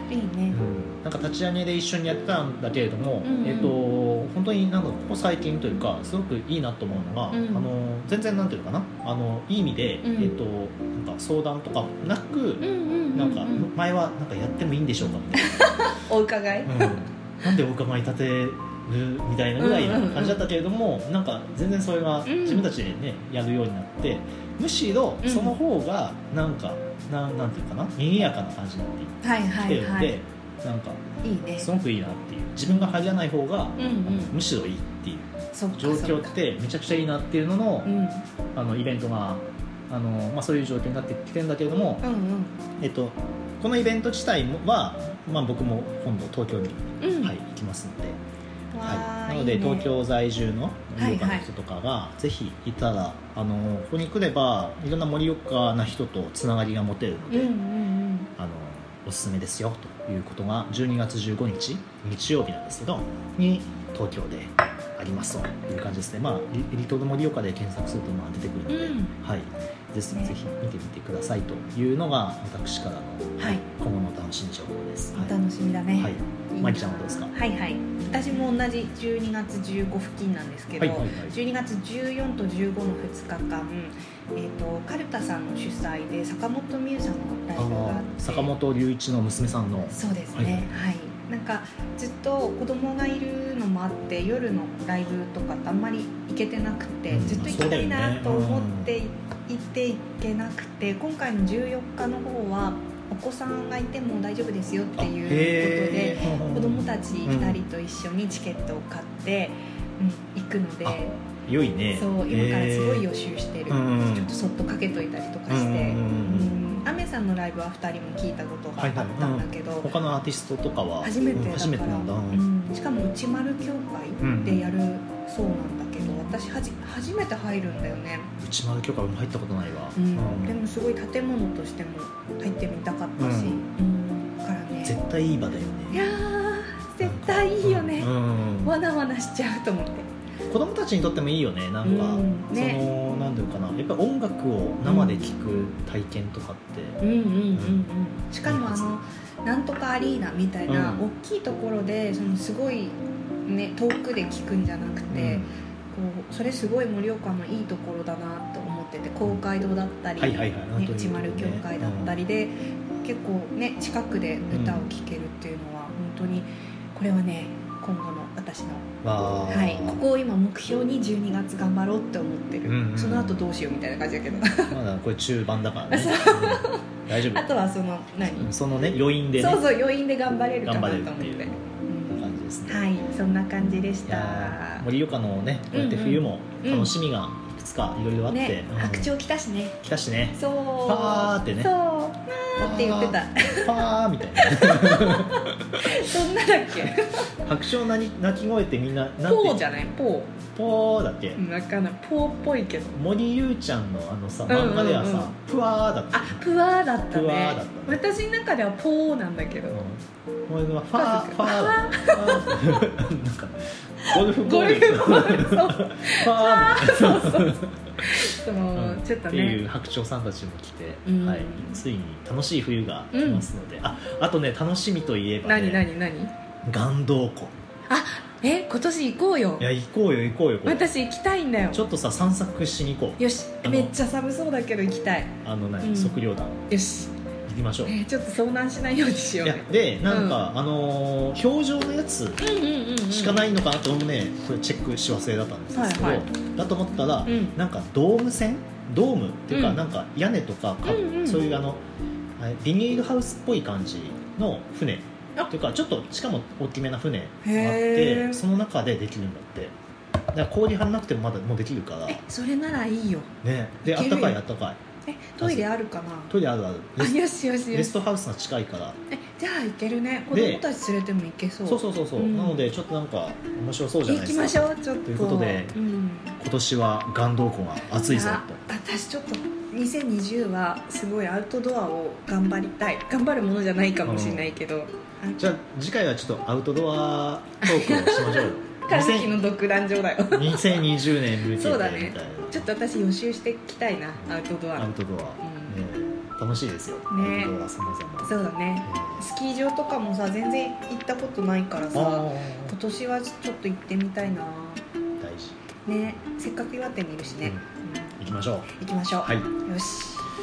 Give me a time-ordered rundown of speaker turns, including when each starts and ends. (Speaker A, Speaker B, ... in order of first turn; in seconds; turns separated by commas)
Speaker A: 0.1-0.6, Speaker B: 0.5-15.6, Speaker A: 3.2-3.8, Speaker A: 7.3-7.7, Speaker A: 10.0-10.3, Speaker A: 12.6-13.7, Speaker A: 15.3-17.0, Speaker B: 16.6-31.0, Speaker A: 19.6-20.4, Speaker A: 22.2-22.7, Speaker A: 25.2-25.6, Speaker A: 29.2-30.2, Speaker A: 31.2-31.7, Speaker B: 31.6-37.9, Speaker A: 32.7-33.0, Speaker A: 33.8-34.4, Speaker A: 35.5-36.3, Speaker A: 37.8-38.2, Speaker B: 38.5-42.0, Speaker A: 42.0-42.6, Speaker B: 42.8-48.2, Speaker A: 47.0-47.3, Speaker A: 48.7-49.9, Speaker B: 48.8-57.5, Speaker A: 51.0-51.5, Speaker A: 57.3-58.3, Speaker B: 58.4-75.3, Speaker A: 68.7-69.1, Speaker A: 73.4-73.7, Speaker A: 75.1-88.5, Speaker B: 76.0-77.3, Speaker B: 80.8-81.4, Speaker B: 87.5-90.8, Speaker A: 89.9-111.2, Speaker B: 97.1-98.9, Speaker B: 105.0-107.6, Speaker B: 110.8-113.0, Speaker A: 111.9-119.9, Speaker B: 113.7-114.3, Speaker B: 115.5-116.6, Speaker B: 118.8-122.5, Speaker A: 121.0-128.3, Speaker B: 124.2-124.7, Speaker B: 128.4-130.6, Speaker A: 129.9-134.9, Speaker B: 133.2-133.6, Speaker B: 134.8-136.0, Speaker A: 135.9-140.1, Speaker B: 137.0-138.7, Speaker B: 140.5-147.0, Speaker A: 141.8-142.9, Speaker A: 144.8-145.3, Speaker A: 147.0-168.9, Speaker B: 147.5-147.8, Speaker B: 148.4-148.9, Speaker B: 150.7-151.0, Speaker B: 155.1-155.5, Speaker B: 160.2-162.2, Speaker B: 164.5-164.9, Speaker B: 169.0-170.0, Speaker A: 169.5-174.8, Speaker B: 172.6-173.5, Speaker B: 174.7-177.5, Speaker A: 175.9-178.5, Speaker B: 178.3-179.7, Speaker A: 179.4-184.9, Speaker B: 180.6-183.0, Speaker B: 184.1-189.1, Speaker A: 185.7-186.9, Speaker A: 188.3-189.8, Speaker B: 189.8-191.7, Speaker A: 190.3-197.3, Speaker B: 192.6-196.1, Speaker B: 196.7-199.6, Speaker A: 199.2-200.3, Speaker B: 200.5-201.4, Speaker A: 201.4-203.0, Speaker B: 202.9-206.4, Speaker A: 204.5-205.3, Speaker A: 206.1-209.8, Speaker B: 207.1-208.0, Speaker B: 209.7-225.8, Speaker A: 210.9-212.6, Speaker A: 214.0-219.6, Speaker A: 221.0-221.8, Speaker A: 223.1-223.4, Speaker A: 225.4-226.3, Speaker B: 226.6-227.6, Speaker A: 227.9-229.7, Speaker B: 229.6-230.9, Speaker A: 230.6-231.8, Speaker B: 231.7-233.9, Speaker A: 233.2-236.2, Speaker B: 235.4-236.7, Speaker A: 236.7-237.1, Speaker B: 237.5-238.0, Speaker A: 237.8-240.4, Speaker B: 239.4-242.4, Speaker A: 242.4-243.5, Speaker B: 243.1-251.8, Speaker A: 245.7-246.3, Speaker A: 247.2-247.6, Speaker A: 249.5-249.8, Speaker A: 250.8-251.5, Speaker B: 252.4-259.7, Speaker A: 257.4-258.4, Speaker B: 260.3-262.2, Speaker A: 262.1-263.3, Speaker B: 263.4-264.8, Speaker A: 263.8-264.4, Speaker A: 265.1-266.3, Speaker B: 265.4-265.7, Speaker B: 266.3-269.0, Speaker A: 267.0-267.9, Speaker A: 269.1-272.6, Speaker B: 270.3-270.6, Speaker B: 271.6-275.8, Speaker A: 274.0-276.4, Speaker B: 276.4-278.6, Speaker A: 278.0-285.4, Speaker B: 284.0-284.5, Speaker B: 285.4-289.4, Speaker A: 287.6-295.8, Speaker B: 290.3-292.7, Speaker B: 294.8-299.2, Speaker A: 297.1-297.5, Speaker A: 298.2-304.8, Speaker B: 301.9-302.7, Speaker B: 305.2-305.6, Speaker A: 305.9-308.2, Speaker B: 308.2-308.7, Speaker A: 308.7-310.3, Speaker B: 309.2-309.5